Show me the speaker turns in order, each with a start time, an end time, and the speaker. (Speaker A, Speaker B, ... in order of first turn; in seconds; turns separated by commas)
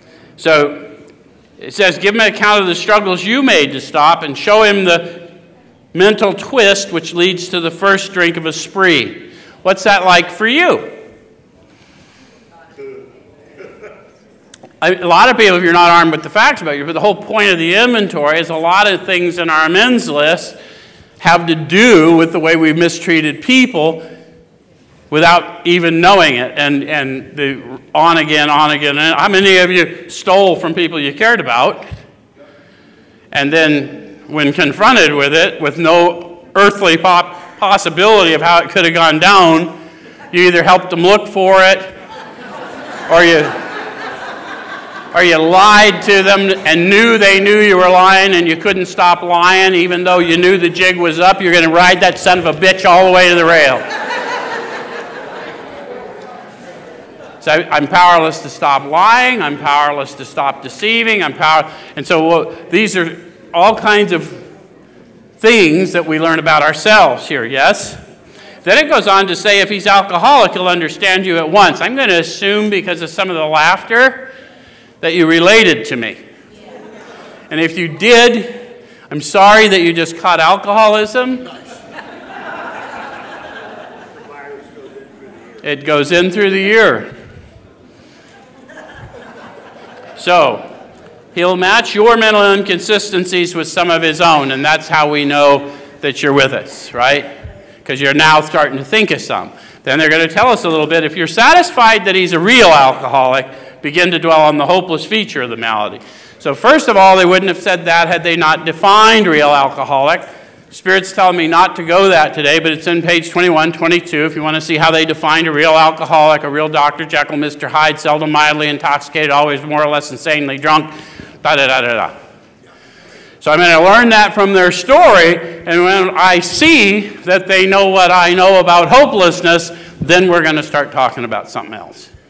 Speaker A: 0.4-0.9, Speaker A: 1.6-5.3, Speaker A: 5.9-10.9, Speaker A: 14.8-20.6, Speaker A: 21.2-24.0, Speaker A: 25.1-31.9, Speaker A: 33.3-39.8, Speaker A: 40.3-41.9, Speaker A: 43.1-43.6, Speaker A: 45.1-53.8, Speaker A: 57.4-64.4, Speaker A: 65.4-68.0, Speaker A: 68.6-74.3, Speaker A: 75.0-76.2, Speaker A: 77.5-81.5, Speaker A: 85.6-87.1, Speaker A: 90.2-90.7, Speaker A: 91.3-97.3, Speaker A: 97.8-122.2, Speaker A: 123.4-132.1